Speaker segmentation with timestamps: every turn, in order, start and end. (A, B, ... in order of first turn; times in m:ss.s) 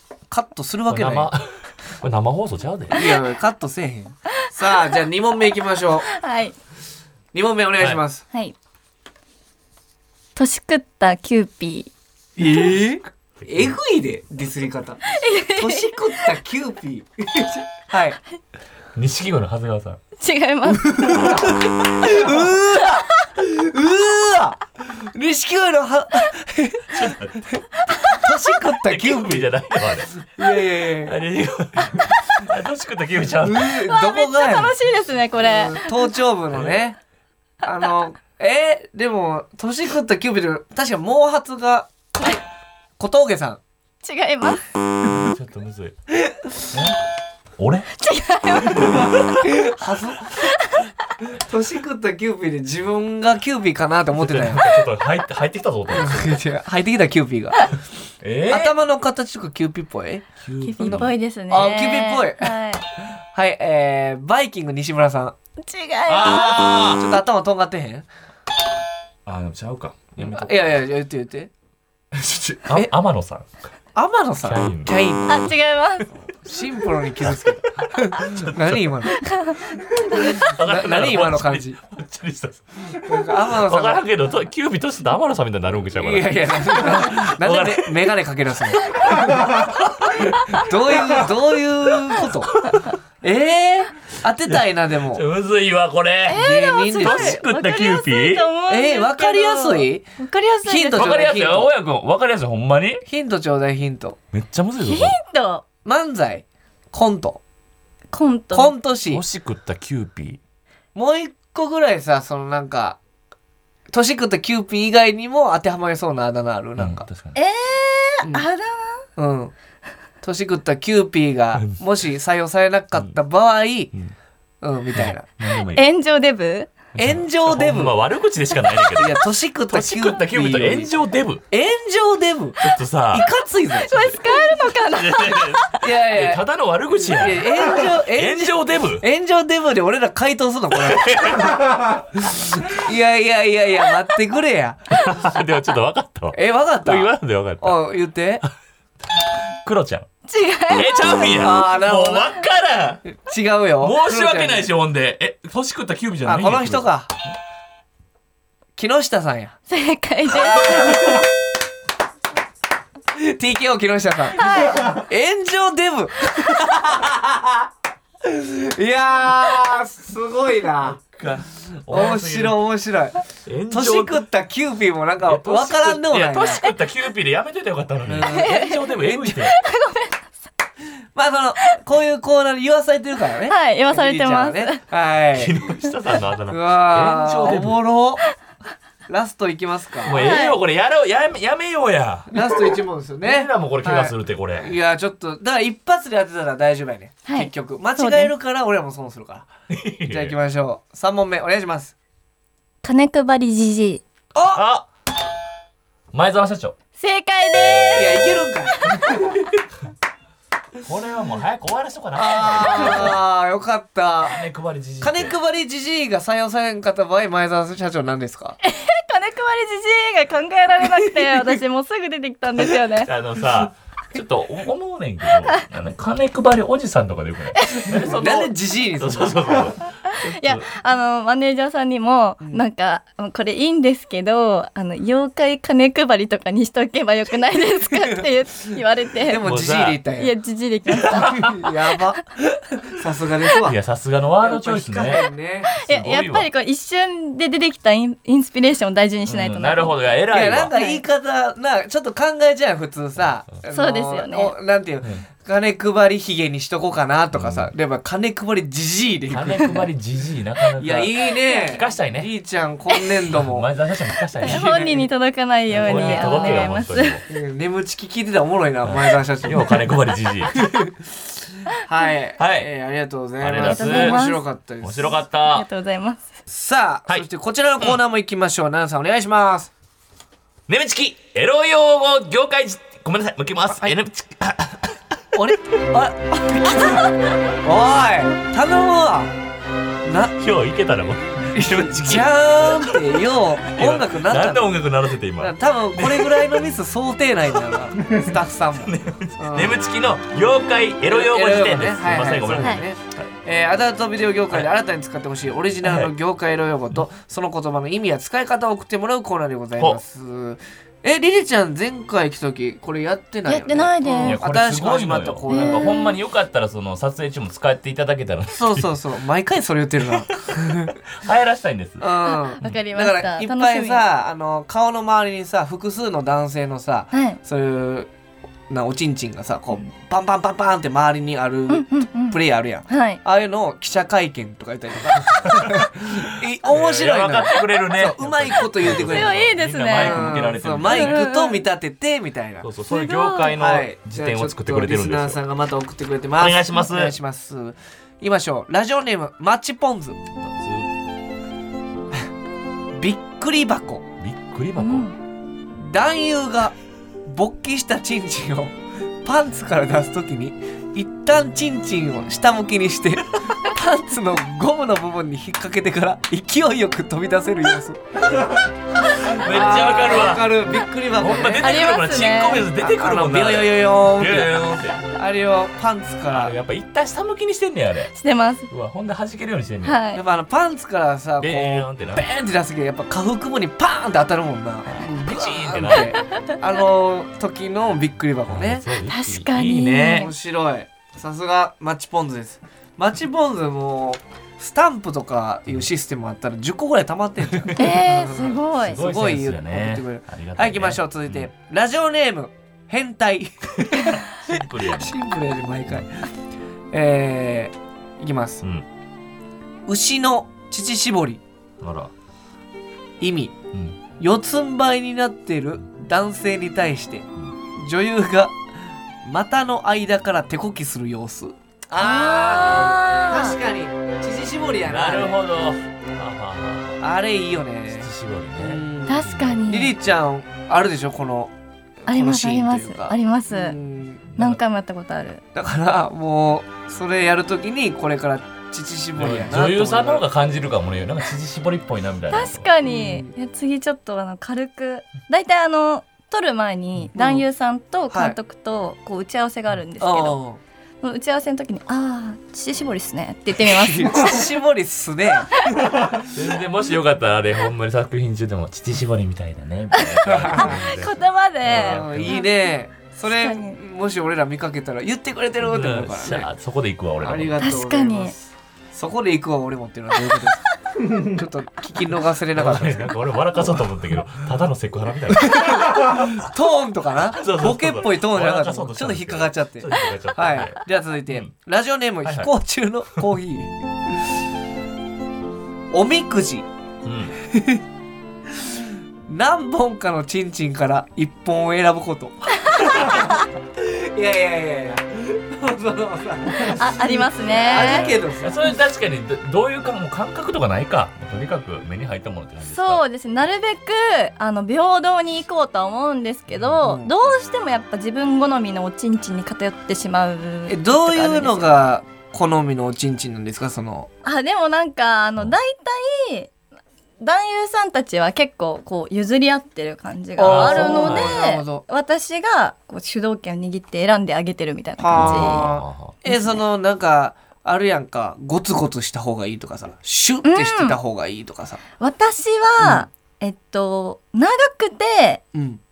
0:00.3-0:01.3 A
0:00.9-0:03.0 B
0:02.9-0:06.1 A
0:06.1-0:06.6 C
0:07.3-0:08.2 A
0:10.4-0:11.9 C
0:12.4-0:18.2 A
0:13.4-0:13.7 B
0:15.1-0:16.1 C
0:18.9-0:20.0 B
0:20.2-0:21.4 C
0:20.8-0:29.5 A
0:26.9-0:27.4 B
0:27.9-0:28.2 C
0:28.7-0:30.2 B
0:30.1-0:31.2 A
0:30.8-0:33.8 B
0:32.0-0:32.4 C
0:33.4-0:34.7 A
0:33.9-0:36.1 C
0:35.4-0:37.0 A
0:36.5-0:36.8 B
0:37.6-0:42.4 A
0:43.0-0:43.6 A
0:44.0-0:44.6 C
0:45.0-0:46.0 B
0:46.7-0:47.0 B
0:47.6-0:47.9 B
0:48.0-0:49.2 C
0:48.7-0:49.4 B
0:49.4-0:50.4 A
0:50.4-0:50.9 C
0:51.2-0:54.7 A
0:54.1-0:56.4 B
0:55.9-0:57.7 A
0:58.2-0:58.7 B
0:58.5-1:00.2 A
1:00.4-1:01.1 B
1:00.6-1:02.8 C
1:00.8-1:02.5 A
1:03.3-1:05.3 A
1:05.6-1:06.7 C
1:06.1-1:07.0 B
1:06.9-1:08.1 A
1:09.2-1:10.7 B
1:10.2-1:11.5 A
1:12.1-1:13.5 B
1:13.9-1:15.5 A
1:14.4-1:15.1 B
1:15.3-1:16.1 C
1:16.4-1:19.2 A
1:17.2-1:18.9 B
1:19.2-1:20.4 C
1:20.3-1:28.1 B
1:20.3-1:21.8 A
1:22.9-1:24.0 A
1:25.9-1:29.6 A
1:28.9-1:31.3 B
1:30.2-1:32.6 A
1:31.9-1:32.9 B
1:33.2-1:35.2 A
1:34.5-1:36.4 B
1:36.3-1:41.2 C
1:36.3-1:37.4 A
1:37.0-1:38.4 B
1:38.7-1:40.1 A
1:40.6-1:41.7 A
1:40.9-1:43.0 B
1:43.0-1:44.2 A
1:44.3-1:45.2 B
1:44.8-1:45.6 C
1:45.8-1:47.4 A
1:48.1-1:48.7 C
1:48.5-1:49.2 A
1:49.1-1:50.4 B
1:50.9-1:53.0 A
1:53.9-1:57.1 A
1:56.8-1:57.4 B
1:57.3-1:59.0 C
1:59.2-1:59.5 A
2:00.2-2:03.9 A
2:01.5-2:01.8 B
2:04.6-2:05.2 A
2:04.9-2:05.8 B
2:05.6-2:06.7 C
2:06.9-2:11.4 B
2:07.0-2:07.9 A
2:09.0-2:10.9 A
2:11.5-2:14.1 A
2:12.6-2:13.3 B
2:13.7-2:15.8 C
2:14.6-2:19.0 B
2:15.8-2:16.4 A
2:17.0-2:25.1 A
2:20.8-2:21.6 B
2:24.9-2:27.8 B
2:26.3-2:28.4 A
2:29.6-2:30.1 B
2:30.3-2:31.3 C
2:30.7-2:33.0 B
2:31.4-2:32.4 A
2:33.1-2:34.7 A
2:33.8-2:36.9 B
2:36.2-2:37.1 A
2:38.8-2:39.5 A
2:39.7-2:41.2 C
2:40.3-2:41.2 A
2:43.1-2:47.7 A
2:44.4-2:45.0 C
2:48.2-2:51.0 A
2:50.8-2:52.6 B
2:51.9-2:56.6 A
2:53.4-2:54.2 B
2:55.2-2:59.5 B
2:58.1-2:58.6 A
2:58.3-3:00.3 C
3:01.1-3:05.6 A
3:03.5-3:04.8 C
3:05.3-3:07.8 B
3:06.5-3:08.2 A
3:09.1-3:10.3 A
3:10.0-3:14.7 B
3:10.2-3:10.6 C
3:12.3-3:19.5 A
3:17.2-3:18.3 C
3:19.7-3:20.4 B
3:20.0-3:21.9 A
3:22.8-3:24.0 C
3:24.3-3:24.6 A
3:24.5-3:24.8 B
3:26.1-3:26.7 B
3:27.0-3:29.4 C
3:27.9-3:28.9 A
3:30.8-3:33.2 B
3:32.2-3:34.4 A
3:34.2-3:35.4 B
3:35.0-3:38.6 A
3:38.6-3:43.1 C
3:43.0-3:50.6 B
3:47.6-3:48.0 C
3:48.0-3:49.6 A
3:50.1-3:59.4 C
3:57.9-4:00.3 A
3:59.4-4:00.0 B
4:00.2-4:01.6 C
4:01.0-4:01.5 B
4:01.1-4:03.8 A
4:03.6-4:05.2 B
4:04.4-4:05.7 A
4:05.7-4:10.0 C
4:05.8-4:06.5 B
4:09.3-4:10.7 B
4:10.3-4:19.8 A
4:10.7-4:11.0 C
4:13.7-4:14.5 C
4:17.3-4:17.7 B
4:19.3-4:22.3 B
4:20.8-4:23.7 A
4:23.3-4:24.7 B
4:24.4-4:25.1 A
4:24.4-4:27.2 C
4:25.7-4:27.2 B
4:25.8-4:26.6 A
4:27.3-4:29.8 A
4:28.8-4:30.8 B
4:30.5-4:30.9 A
4:31.6-4:35.2 A
4:32.4-4:32.7 B
4:33.4-4:34.2 B
4:33.6-4:34.4 C
4:34.8-4:35.6 B
4:35.3-4:36.2 C
4:36.5-4:39.7 A
4:40.7-4:45.0 B
4:45.3-4:49.3 A
4:50.0-4:50.4 A
4:50.4-4:56.7 B
4:51.5-4:54.8 A
4:55.4-4:59.8 A
4:57.5-5:03.3 B
5:01.1-5:16.0 A
5:05.8-5:06.1 B
5:13.5-5:14.4 C
5:14.2-5:19.0 B
5:15.5-5:16.1 C
5:18.5-5:21.0 A
5:20.0-5:22.1 B
5:22.0-5:28.1 A
5:22.3-5:24.0 C
5:27.1-5:27.4 C
5:28.7-5:42.7 A
5:31.7-5:33.2 C
5:36.6-5:41.2 B
5:38.9-5:41.6 C
5:42.6-5:45.4 B
5:42.9-5:43.5 C
5:43.5-5:50.2 A
5:46.4-5:47.2 B
5:50.4-5:50.9 B
5:52.9-5:54.1 A
5:54.2-5:55.1 B
5:54.8-5:55.2 C
5:55.7-6:08.6 A
6:09.1-6:10.6 B
6:09.3-6:11.8 A
6:11.2-6:15.0 B
6:11.6-6:12.7 C
6:12.8-6:16.5 A
6:16.3-6:18.1 B
6:18.1-6:18.7 C
6:18.7-6:20.0 B
6:19.8-6:20.2 C
6:20.1-6:28.8 A
6:21.4-6:22.2 B
6:24.9-6:26.1 B
6:26.0-6:26.2 C
6:28.5-6:30.3 B
6:29.1-6:30.3 C
6:30.1-6:46.2 A
6:37.5-6:37.9 B
6:37.8-6:39.0 C
6:38.7-6:41.5 B
6:43.9-6:45.2 B
6:46.9-6:48.6 A
6:49.9-6:51.4 A
6:51.8-6:52.1 B
6:53.2-6:53.6 A
6:53.7-6:54.0 B
6:54.2-6:58.5 A
6:59.2-7:05.4 A
7:02.0-7:03.6 C
7:04.8-7:07.0 B
7:07.0-7:11.5 A
7:07.9-7:09.6 B
7:09.0-7:09.9 C
7:12.1-7:14.2 A
7:12.1-7:13.8 C
7:14.4-7:15.4 C
7:15.5-7:20.2 A
7:19.2-7:22.7 B
7:22.3-7:30.4 C
7:22.8-7:23.3 A
7:27.1-7:27.4 A
7:28.1-7:28.4 A
7:30.0-7:30.6 A
7:31.0-7:34.5 C
7:33.6-7:36.3 A
7:36.3-7:42.4 B
7:39.9-7:42.7 C
7:40.2-7:40.8 A
7:41.6-7:46.5 A
7:43.2-7:43.8 C
7:45.6-7:47.6 B
7:47.2-7:53.1 A
7:47.6-7:48.3 C
7:52.5-7:56.3 B
7:55.4-8:03.7 A
7:57.3-8:01.5 B
8:02.2-8:02.5 B
8:05.9-8:06.7 A
8:07.0-8:07.4 B
8:07.4-8:07.8 A
8:08.5-8:18.7 A
8:16.5-8:18.1 C
8:17.7-8:23.0 B
8:22.6-8:31.7 C
8:26.5-8:26.8 B
8:26.8-8:27.1 A
8:30.7-8:34.1 A
8:34.2-8:36.5 C
8:37.2-8:45.7 C
8:40.4-8:41.8 A
8:40.4-8:41.4 B
8:45.0-8:51.8 A
8:45.1-8:46.2 B
8:46.2-8:46.6 C
8:50.4-8:51.0 C
8:52.0-8:55.4 C
8:52.8-8:53.0 A
8:55.5-8:55.8 A